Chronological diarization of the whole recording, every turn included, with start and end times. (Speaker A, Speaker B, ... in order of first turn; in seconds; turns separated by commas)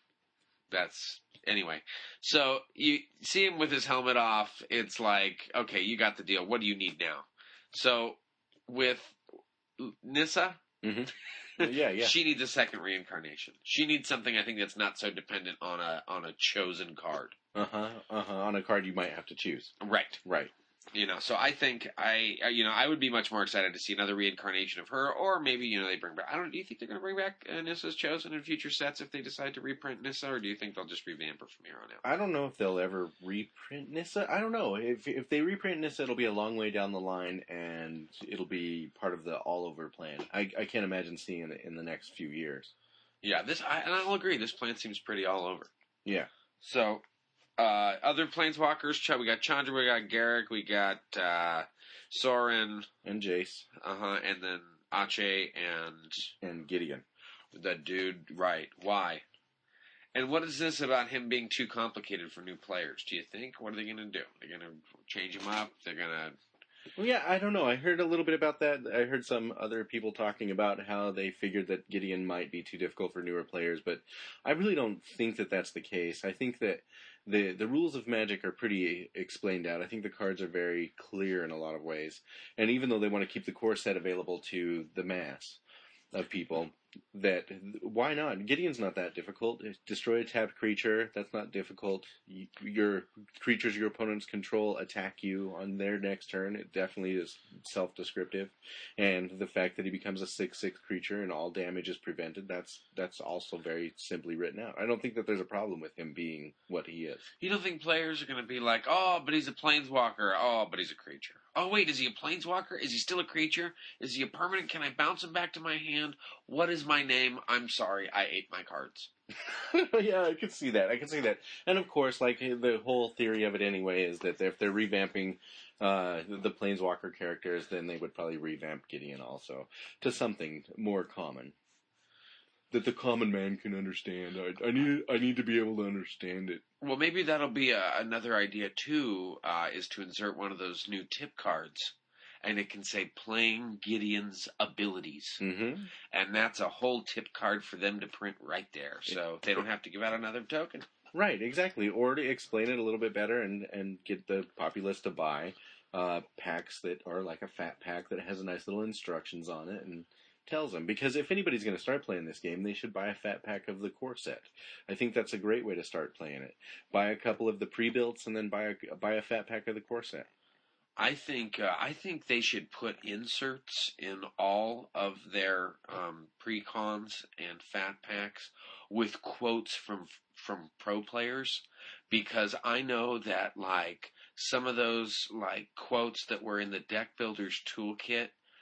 Speaker A: 0.7-9.2, Speaker A: 9.8-10.6, Speaker B: 10.8-12.1, Speaker A: 11.6-17.4, Speaker B: 17.6-19.7, Speaker A: 19.8-20.2, Speaker B: 20.2-20.5, Speaker A: 20.9-32.0, Speaker B: 32.0-42.7, Speaker A: 43.2-45.7, Speaker A: 46.6-47.0, Speaker A: 47.6-52.9, Speaker B: 53.0-53.7, Speaker A: 53.8-56.3, Speaker B: 56.4-57.0, Speaker A: 57.5-59.2, Speaker A: 60.1-66.4, Speaker B: 67.0-85.6, Speaker B: 86.1-107.2, Speaker A: 107.4-119.1, Speaker B: 119.4-131.6, Speaker B: 132.7-136.6, Speaker A: 136.8-145.4, Speaker B: 145.4-145.9, Speaker A: 146.1-150.9, Speaker B: 151.1-170.3, Speaker A: 171.0-188.3